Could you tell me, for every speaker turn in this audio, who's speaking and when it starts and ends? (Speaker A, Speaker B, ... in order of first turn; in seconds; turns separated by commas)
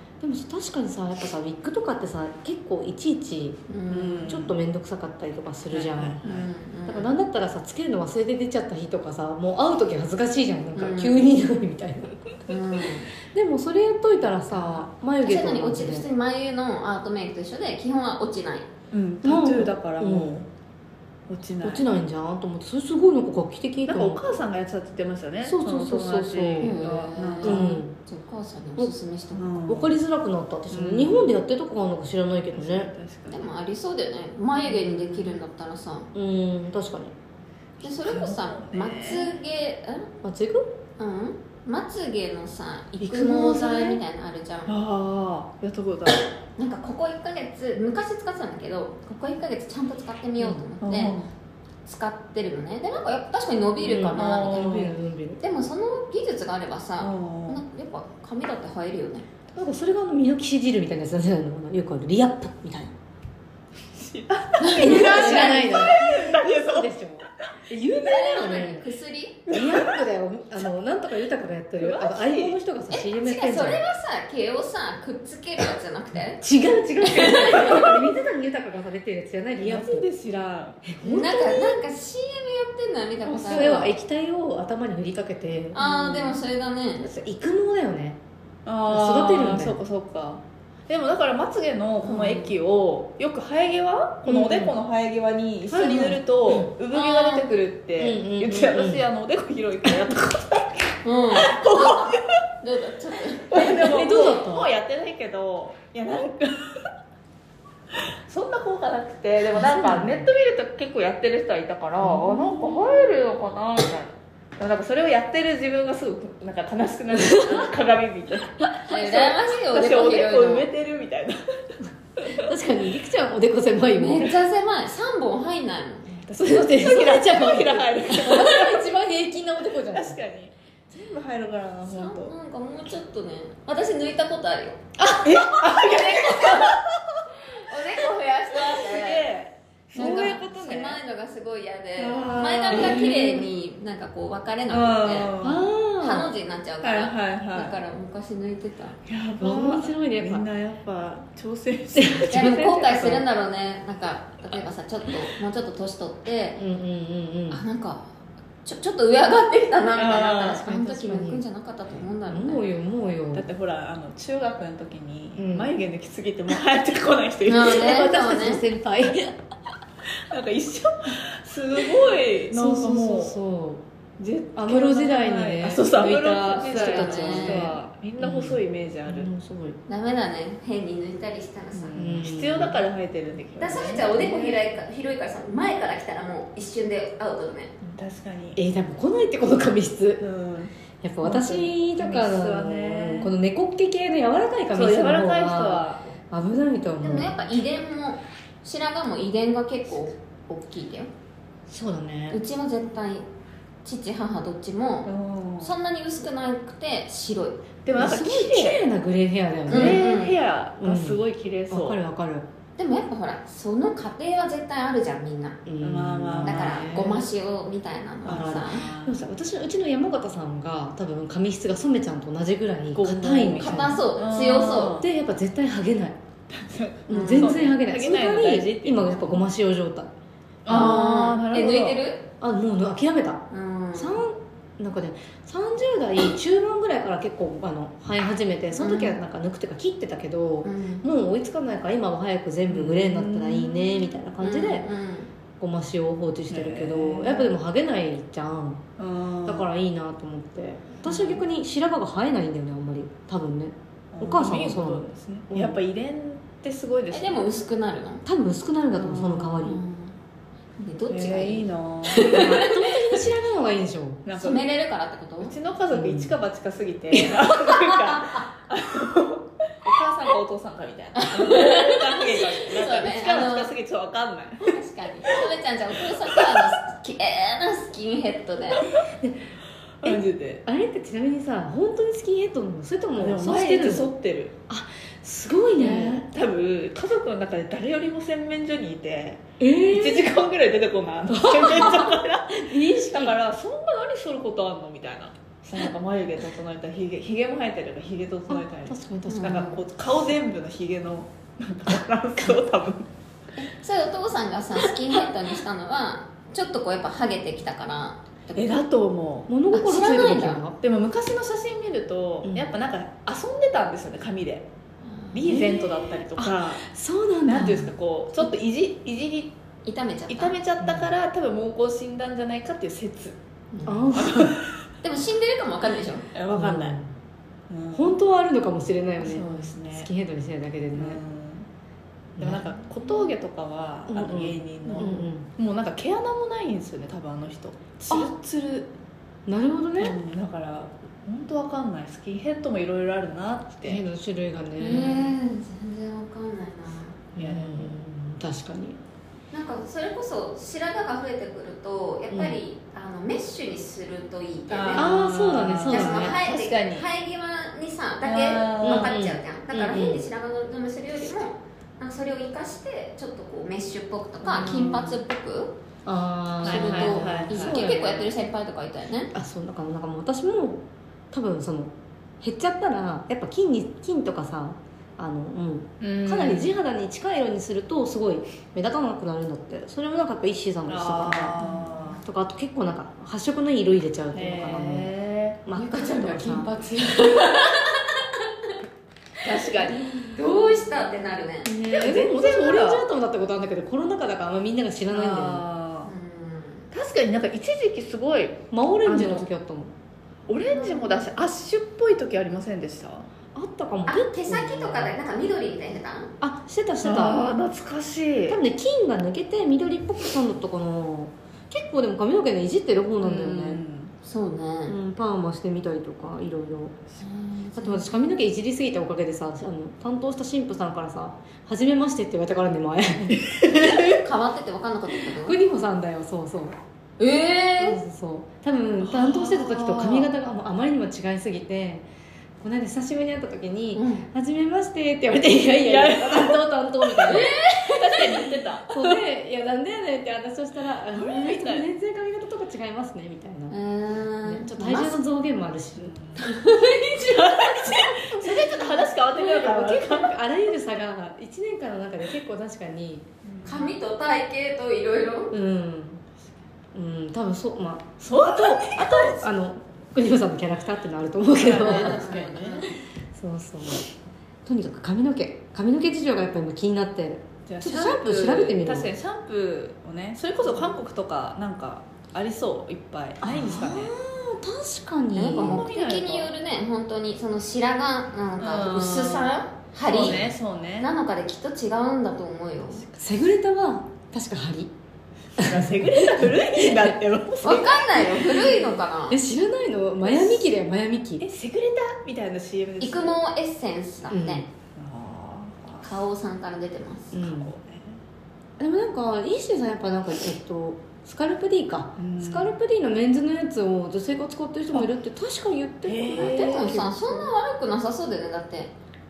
Speaker A: 0.2-3.6, Speaker B: 3.7-4.3, Speaker C: 3.9-4.5, Speaker A: 4.3-6.2, Speaker C: 5.7-6.5, Speaker B: 6.2-7.1, Speaker A: 6.9-12.3, Speaker B: 10.7-11.2, Speaker B: 12.5-13.1, Speaker A: 13.2-16.1, Speaker C: 14.5-14.9, Speaker B: 15.2-18.7, Speaker C: 18.9-20.5, Speaker A: 19.2-20.4, Speaker C: 21.3-21.9, Speaker A: 21.6-24.2, Speaker C: 23.9-27.7, Speaker A: 25.4-26.8, Speaker B: 26.6-29.6, Speaker A: 27.4-27.9, Speaker C: 29.3-29.9, Speaker A: 29.7-32.9, Speaker C: 30.7-31.3, Speaker C: 32.5-33.5, Speaker B: 33.3-36.1, Speaker C: 34.7-35.4, Speaker A: 36.1-37.1, Speaker B: 37.8-40.1, Speaker C: 37.9-39.3, Speaker A: 40.2-40.7, Speaker B: 41.0-44.7, Speaker A: 43.0-44.0, Speaker C: 44.7-46.2, Speaker B: 46.6-51.2, Speaker A: 50.4-50.6, Speaker C: 50.8-51.3, Speaker B: 51.8-54.8, Speaker A: 53.8-55.4, Speaker C: 54.1-54.9, Speaker B: 55.4-59.3, Speaker C: 57.0-57.6, Speaker A: 59.5-62.9, Speaker C: 63.9-66.9, Speaker B: 64.6-65.9, Speaker A: 64.6-68.8, Speaker C: 67.5-68.7, Speaker B: 68.0-69.5, Speaker C: 69.5-70.0, Speaker A: 69.5-73.8, Speaker C: 71.8-72.5, Speaker B: 72.9-76.4, Speaker A: 76.4-80.0, Speaker B: 77.0-77.9, Speaker C: 79.6-80.9, Speaker A: 80.8-81.8, Speaker B: 81.0-83.9, Speaker C: 83.3-83.8, Speaker A: 83.4-85.8, Speaker B: 85.7-87.1, Speaker C: 85.8-86.4, Speaker A: 87.0-88.2, Speaker C: 88.7-102.3, Speaker A: 88.8-89.8, Speaker A: 92.1-92.5, Speaker A: 94.2-94.7, Speaker A: 95.7-96.7, Speaker B: 96.9-97.5, Speaker A: 98.0-99.0, Speaker B: 101.0-103.7, Speaker C: 103.5-106.9, Speaker A: 103.5-104.7, Speaker C: 107.9-121.6, Speaker A: 109.5-110.3, Speaker A: 112.0-112.5, Speaker A: 117.1-117.7, Speaker B: 118.9-120.7, Speaker C: 122.2-122.5, Speaker A: 122.3-124.4, Speaker B: 123.9-126.2, Speaker C: 126.2-128.9, Speaker A: 126.3-130.2, Speaker C: 129.8-132.3, Speaker B: 131.8-134.8, Speaker A: 135.0-136.0, Speaker C: 135.1-137.1, Speaker B: 135.8-136.4, Speaker B: 137.6-139.3, Speaker C: 138.5-141.0, Speaker B: 139.9-145.3, Speaker A: 139.9-140.4, Speaker C: 142.0-143.4, Speaker A: 142.7-143.2, Speaker C: 144.7-145.7, Speaker A: 145.4-146.3, Speaker B: 146.0-149.0, Speaker C: 146.8-147.8, Speaker C: 149.1-153.2, Speaker A: 149.4-150.5, Speaker A: 151.9-152.8, Speaker B: 152.3-156.6, Speaker A: 156.6-157.6, Speaker B: 157.5-158.1, Speaker B: 158.6-162.6, Speaker C: 159.9-160.6, Speaker A: 160.6-161.4, Speaker A: 162.3-163.5, Speaker C: 163.3-168.0, Speaker A: 165.3-165.7, Speaker B: 167.4-168.6, Speaker A: 167.6-169.4, Speaker C: 170.3-173.3, Speaker A: 172.5-173.8, Speaker C: 174.2-179.3, Speaker A: 174.6-179.8, Speaker B: 176.6-177.7, Speaker B: 179.9-182.0, Speaker C: 181.7-184.7, Speaker A: 181.9-182.8, Speaker B: 183.6-187.7, Speaker C: 187.8-188.6, Speaker A: 188.6-190.3, Speaker C: 190.2-193.3, Speaker A: 191.0-197.4, Speaker C: 194.7-196.1, Speaker B: 197.0-201.1, Speaker A: 201.7-202.4, Speaker B: 202.3-203.2, Speaker B: 203.8-207.6, Speaker C: 205.1-205.7, Speaker C: 207.8-208.8, Speaker A: 207.9-210.2, Speaker C: 209.7-212.0, Speaker B: 209.7-210.3, Speaker A: 210.8-212.5, Speaker B: 212.8-215.6, Speaker A: 215.7-217.2, Speaker C: 215.8-217.2, Speaker B: 216.4-218.8, Speaker A: 218.2-224.0, Speaker C: 218.2-219.2, Speaker C: 222.9-225.1, Speaker B: 223.6-225.0, Speaker A: 224.9-226.2, Speaker C: 226.5-229.4, Speaker A: 227.1-230.1, Speaker B: 227.1-227.6, Speaker C: 230.6-232.0, Speaker B: 230.7-232.2, Speaker A: 230.7-230.9, Speaker A: 232.4-244.9, Speaker B: 233.5-234.2, Speaker B: 238.8-239.2, Speaker B: 240.6-241.0, Speaker C: 242.7-244.1, Speaker B: 244.4-245.3, Speaker A: 245.6-248.8, Speaker C: 246.5-247.5, Speaker C: 249.0-249.7, Speaker A: 249.4-255.8, Speaker C: 251.0-251.4, Speaker C: 254.1-257.5, Speaker B: 257.1-258.2, Speaker A: 258.2-259.8, Speaker C: 258.9-259.7, Speaker B: 259.6-260.2, Speaker B: 260.8-262.9, Speaker C: 261.1-262.4, Speaker A: 262.2-264.2, Speaker C: 264.2-264.7, Speaker B: 264.3-265.5, Speaker C: 265.4-275.4, Speaker A: 265.9-266.3, Speaker A: 267.1-268.2, Speaker B: 271.1-273.7, Speaker B: 274.6-278.9, Speaker C: 276.1-276.7, Speaker A: 279.0-279.5, Speaker C: 280.0-280.6, Speaker A: 280.0-284.1, Speaker C: 283.2-284.5, Speaker A: 284.7-286.2, Speaker C: 285.8-303.1, Speaker A: 289.6-290.3, Speaker A: 291.3-293.3, Speaker A: 298.5-299.7, Speaker B: 299.3-299.8, Speaker B: 303.6-308.8, Speaker C: 308.5-309.5, Speaker A: 309.5-310.8, Speaker B: 309.7-310.6, Speaker C: 310.8-314.6, Speaker B: 315.0-315.4, Speaker C: 315.3-316.9, Speaker A: 315.5-317.9, Speaker C: 317.4-319.5, Speaker B: 319.8-320.5, Speaker C: 320.3-323.4, Speaker A: 320.8-321.1, Speaker B: 323.7-324.1, Speaker A: 323.8-324.6, Speaker C: 324.1-324.8, Speaker B: 325.0-326.3, Speaker C: 326.3-327.0, Speaker A: 326.5-327.1, Speaker C: 327.7-328.1, Speaker A: 327.9-331.2, Speaker C: 329.2-330.1, Speaker C: 330.9-331.7, Speaker A: 332.4-332.7, Speaker C: 332.4-338.9, Speaker A: 334.1-335.5, Speaker A: 339.4-340.2, Speaker C: 340.0-344.0, Speaker A: 343.8-345.3, Speaker B: 344.8-347.2, Speaker C: 347.4-348.0, Speaker A: 347.4-349.0, Speaker B: 349.5-355.1, Speaker A: 352.3-352.6, Speaker C: 354.7-357.1, Speaker A: 354.9-356.4, Speaker B: 355.9-365.7, Speaker C: 358.2-359.1, Speaker A: 358.8-360.2, Speaker A: 364.5-364.9, Speaker C: 364.5-365.2, Speaker A: 366.0-368.3, Speaker C: 366.6-367.8, Speaker B: 366.6-369.3, Speaker A: 369.3-381.6, Speaker C: 376.0-376.7, Speaker C: 380.9-382.2, Speaker B: 381.6-381.9, Speaker A: 382.2-385.1, Speaker C: 384.3-385.6, Speaker A: 385.6-386.7, Speaker B: 385.7-388.8, Speaker C: 389.4-390.0, Speaker B: 390.2-391.7, Speaker A: 391.6-395.6, Speaker C: 391.9-393.1, Speaker C: 395.1-396.1, Speaker B: 396.1-396.9, Speaker C: 396.9-399.4, Speaker A: 398.7-399.9, Speaker C: 400.5-403.3, Speaker B: 400.7-401.2, Speaker A: 403.5-405.1, Speaker B: 404.1-406.3, Speaker A: 406.4-407.4, Speaker C: 407.0-408.6, Speaker A: 408.5-413.8, Speaker C: 413.2-414.1, Speaker B: 414.2-414.9, Speaker A: 414.9-417.0, Speaker B: 417.2-418.1, Speaker A: 417.7-424.1, Speaker B: 423.8-425.6, Speaker A: 425.3-426.8, Speaker B: 427.2-428.0, Speaker A: 427.8-432.1, Speaker C: 429.0-430.3, Speaker A: 432.6-437.5, Speaker B: 433.9-434.2, Speaker C: 435.8-436.6, Speaker C: 437.2-439.2, Speaker B: 437.3-438.5, Speaker A: 438.9-443.7, Speaker C: 441.1-441.9, Speaker B: 443.7-445.2, Speaker A: 444.4-446.1, Speaker C: 446.0-446.4, Speaker B: 446.4-448.5, Speaker C: 447.2-450.4, Speaker A: 448.5-453.2, Speaker C: 453.4-453.9, Speaker B: 453.6-455.5, Speaker A: 455.5-456.2, Speaker A: 456.9-462.4, Speaker C: 458.2-459.4, Speaker C: 461.5-462.9, Speaker B: 461.8-462.9, Speaker A: 463.3-464.1, Speaker A: 464.6-469.1, Speaker C: 467.7-474.1, Speaker A: 473.4-475.8, Speaker B: 475.3-480.5, Speaker C: 475.5-476.5, Speaker C: 478.6-481.1, Speaker B: 481.0-483.0, Speaker C: 482.9-483.2, Speaker A: 483.2-484.9, Speaker C: 485.6-488.9, Speaker A: 485.6-487.1, Speaker B: 487.6-489.4, Speaker A: 489.3-491.4, Speaker C: 490.2-490.7, Speaker C: 491.4-493.4, Speaker B: 493.0-494.6, Speaker A: 494.3-494.6, Speaker C: 494.9-496.1, Speaker B: 496.0-497.3, Speaker A: 497.3-497.7, Speaker C: 497.3-498.2, Speaker A: 498.8-507.5, Speaker C: 502.2-502.7, Speaker C: 506.0-507.0, Speaker B: 506.3-508.9